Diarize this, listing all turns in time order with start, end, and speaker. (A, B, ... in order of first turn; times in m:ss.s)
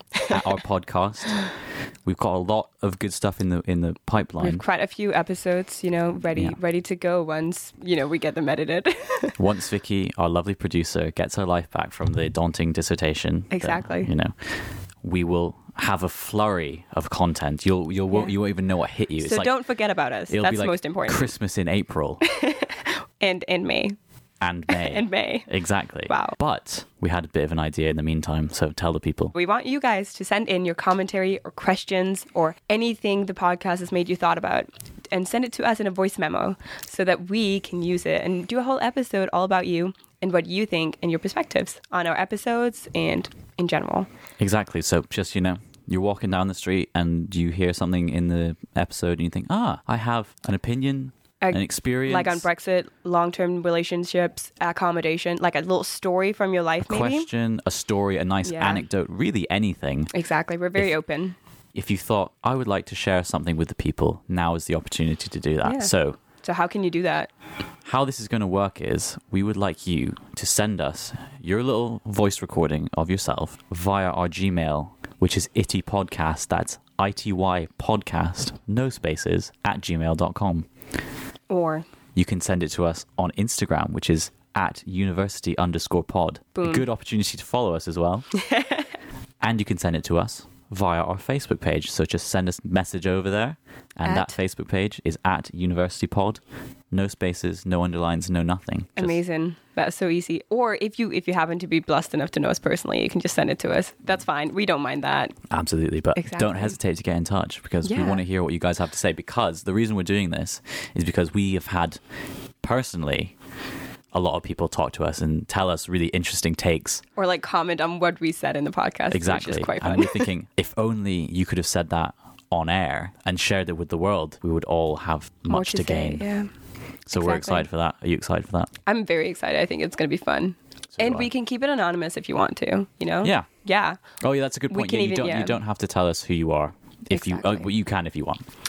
0:00.2-0:01.5 A
0:02.1-0:04.6 A
0:04.4-0:09.4 B
0:09.4-0:14.5 A
0:13.5-0:14.1 B
0:15.0-0:19.6 A
0:19.2-0:21.3 B
0:20.3-0:22.2 A
0:22.2-0:24.0 B
0:24.4-0:29.4 A
0:24.7-0:25.5 B
0:26.1-0:26.4 B
0:29.4-0:44.1 B
0:44.4-0:52.5 A
0:51.4-0:57.3 B
0:56.8-1:00.1 A
0:58.4-0:58.8 B
1:00.1-1:01.4 B
1:01.8-1:06.2 A
1:05.6-1:07.3 B
1:07.8-1:20.7 A
1:21.5-1:21.8 B
1:22.2-1:28.3 A
1:26.6-1:26.9 B
1:28.5-1:28.8 B
1:29.4-1:39.2 A
1:34.0-1:34.3 B
1:39.0-1:45.4 B
1:45.5-1:52.0 A
1:46.2-1:46.8 B
1:47.8-1:48.2 B
1:52.6-1:53.3 A
1:54.1-1:57.0 A
1:57.2-2:00.3 B
1:59.1-2:06.3 A
2:05.5-2:06.5 B
2:07.1-2:08.7 A
2:07.1-2:07.7 B
2:08.9-2:14.0 B
2:11.0-2:11.3 A
2:13.2-2:13.5 A
2:14.2-2:18.4 A
2:14.7-2:15.6 B
2:17.1-2:17.7 B